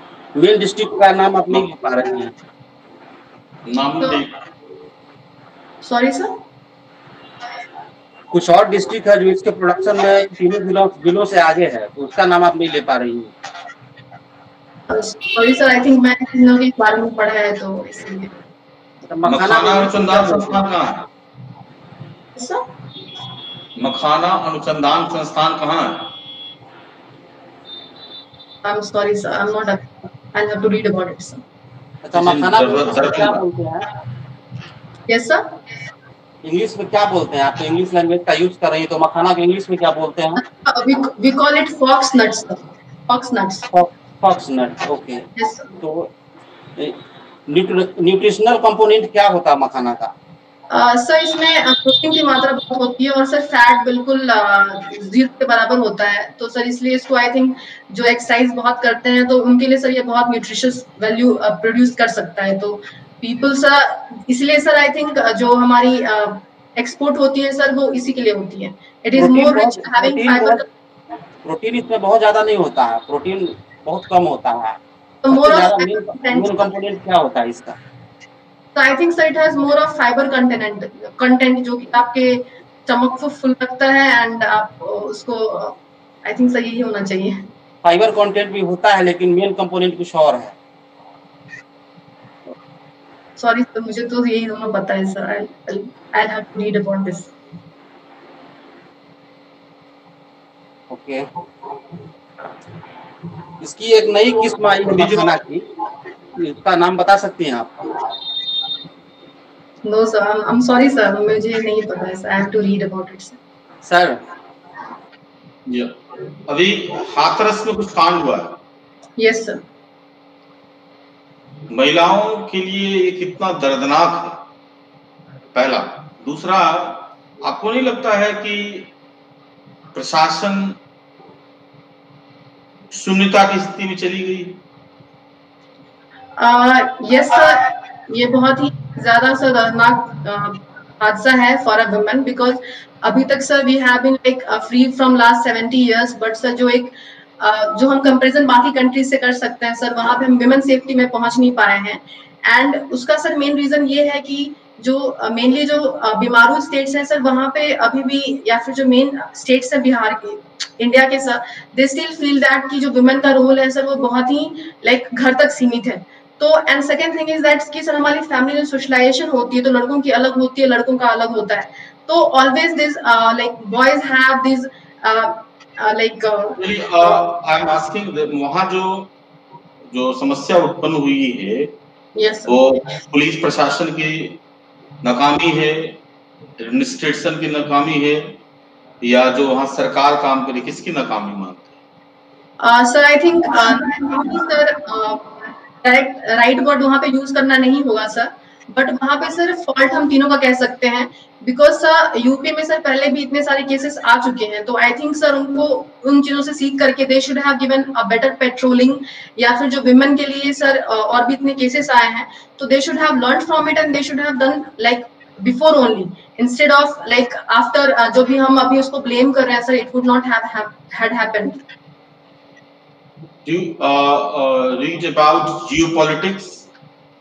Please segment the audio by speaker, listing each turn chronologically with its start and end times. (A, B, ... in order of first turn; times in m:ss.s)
0:00.4-0:02.3 A
0:03.6-0:04.3 B
0:05.8-0:06.3 C
0:08.3-0:13.3 A
0:14.9-0:18.3 C
0:19.1-0:20.7 A
0:19.3-0:21.0 B
0:22.4-0:22.6 C
0:23.8-0:26.1 B
0:28.6-0:31.4 C
0:32.0-0:33.9 A
0:32.2-0:33.4 B
0:35.1-0:35.5 C
0:36.4-0:40.4 A
0:40.5-0:43.7 C
0:43.7-0:45.2 A
0:45.4-0:45.7 C
0:45.8-0:46.1 A
0:47.5-0:50.1 A
0:50.7-1:10.6 C
1:09.2-1:10.6 A
1:11.4-1:14.8 A
1:15.2-1:16.5 C
1:15.3-1:17.8 A
1:18.8-1:27.4 C
1:27.8-1:30.6 A
1:33.4-1:37.3 C
1:40.9-1:41.3 A
1:43.6-1:45.6 A
1:44.9-1:45.4 B
1:46.4-1:47.8 A
1:49.8-1:53.4 C
1:53.8-1:54.2 A
1:56.5-1:58.6 B
1:59.2-1:59.6 C
2:01.7-2:04.5 B
2:05.5-2:08.9 B
2:09.9-2:10.8 B
2:12.9-2:14.6 B
2:16.4-2:57.2 C
2:56.6-2:59.1 B
2:59.9-3:01.8 B
3:02.2-3:02.8 C
3:02.5-3:04.4 B
3:05.0-3:06.0 B
3:06.6-3:08.4 B
3:09.0-3:11.7 B
3:12.6-3:41.6 C
3:43.4-3:46.7 B